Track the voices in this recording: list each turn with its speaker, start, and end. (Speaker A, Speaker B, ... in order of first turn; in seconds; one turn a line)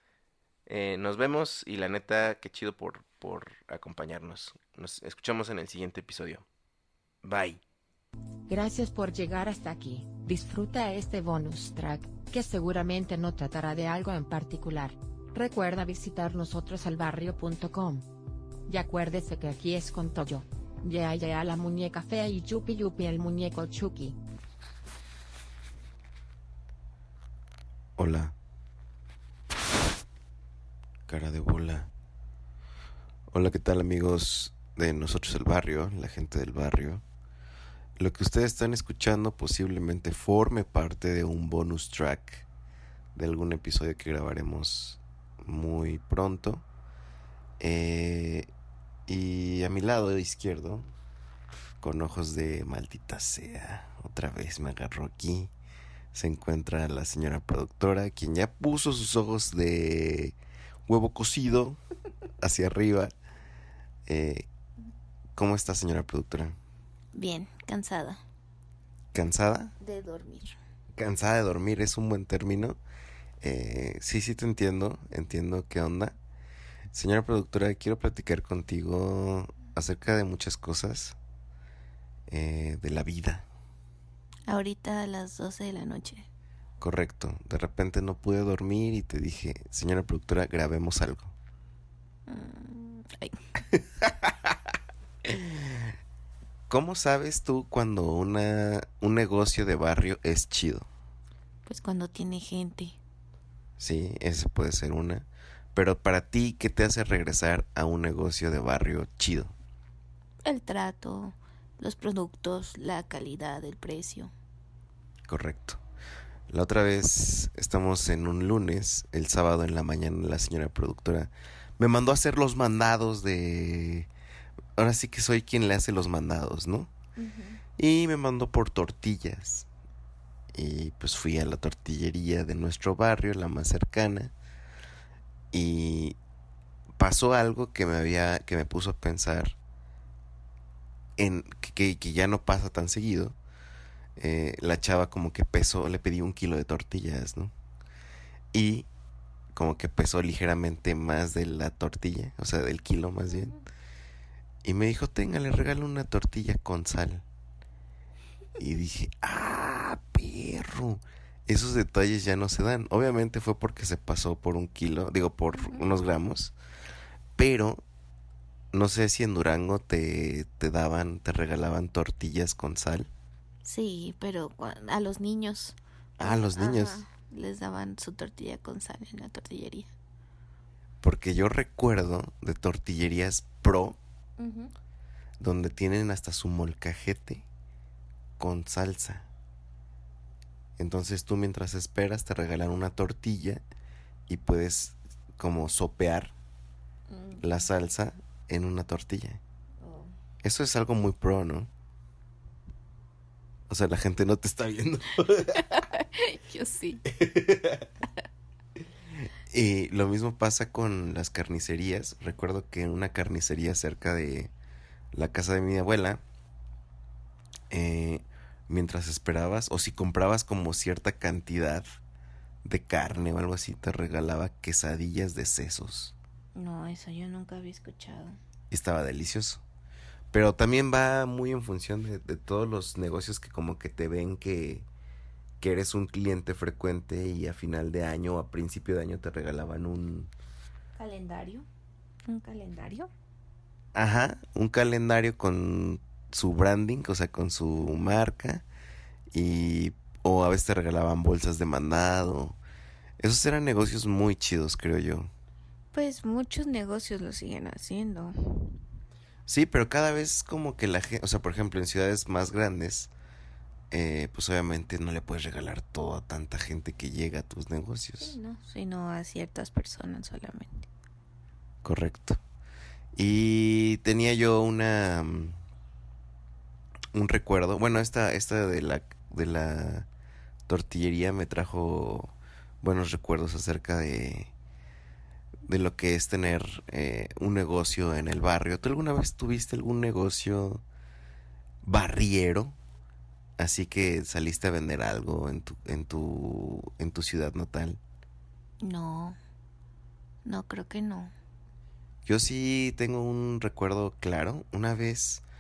Speaker A: 0.7-6.5
Speaker A: 7.2-7.6
Speaker B: 8.5-18.1
Speaker B: 18.7-24.1
Speaker A: 28.0-28.4
Speaker A: 31.1-31.9
Speaker A: 33.3-37.0
Speaker A: 38.0-42.5
Speaker A: 43.1-46.6
Speaker A: 47.6-48.5
Speaker A: 49.1-50.9
Speaker A: 51.8-55.5
Speaker A: 56.1-60.4
Speaker A: 60.9-61.8
Speaker A: 62.4-63.1
Speaker A: 64.1-64.5
Speaker A: 65.4-66.6
Speaker C: 67.2-68.2
Speaker A: 69.1-69.7
Speaker C: 69.8-70.6
Speaker A: 71.0-72.8
Speaker A: 73.4-76.2
Speaker A: 76.9-81.2
Speaker A: 82.3-83.5
Speaker C: 84.5-86.3
Speaker A: 86.8-91.3
Speaker C: 92.3-93.6
Speaker A: 94.0-94.3
Speaker A: 95.2-95.9
Speaker A: 96.7-100.9
Speaker C: 101.7-103.0
Speaker A: 103.8-109.5
Speaker C: 110.5-114.3
Speaker A: 115.3-115.8
Speaker A: 116.5-124.1
Speaker A: 124.8-126.9
Speaker C: 127.2-127.6
Speaker A: 127.8-129.7
Speaker A: 130.5-134.3
Speaker A: 135.5-136.2
Speaker A: 137.0-139.6
Speaker A: 141.2-143.4
Speaker A: 144.2-147.5
Speaker A: 148.5-148.9
Speaker A: 149.5-153.6
Speaker C: 153.3-153.7
Speaker A: 154.6-157.2
Speaker A: 158.6-166.5
Speaker C: 165.5-166.0
Speaker A: 167.4-167.8
Speaker A: 168.7-173.1
Speaker C: 173.7-179.9
Speaker A: 176.2-177.0
Speaker A: 181.0-184.0
Speaker C: 184.4-184.7
Speaker A: 185.4-187.4
Speaker A: 188.4-189.3
Speaker A: 190.8-193.6
Speaker A: 194.3-196.3
Speaker C: 197.1-197.5
Speaker A: 197.4-199.4
Speaker C: 199.8-200.1
Speaker A: 200.4-201.7
Speaker A: 203.7-205.6
Speaker C: 205.5-207.1
Speaker A: 207.1-207.9
Speaker A: 209.5-214.5
Speaker A: 215.1-216.2
Speaker A: 217.7-221.9
Speaker A: 222.6-226.2
Speaker C: 226.6-228.4
Speaker A: 228.7-229.6
Speaker A: 230.3-234.9
Speaker A: 235.6-240.3
Speaker C: 241.0-241.7
Speaker C: 242.3-243.1
Speaker A: 243.9-248.7
Speaker A: 249.3-252.6
Speaker A: 253.2-255.3
Speaker C: 255.9-258.4
Speaker A: 259.5-263.1
Speaker A: 263.9-268.4
Speaker C: 268.2-270.9
Speaker A: 271.8-272.4
Speaker A: 273.1-275.6
Speaker A: 277.1-280.1
Speaker A: 280.7-284.5
Speaker A: 285.7-290.8
Speaker A: 291.8-292.8
Speaker A: 293.6-298.0
Speaker C: 298.8-299.4
Speaker C: 300.4-301.3
Speaker A: 302.3-305.4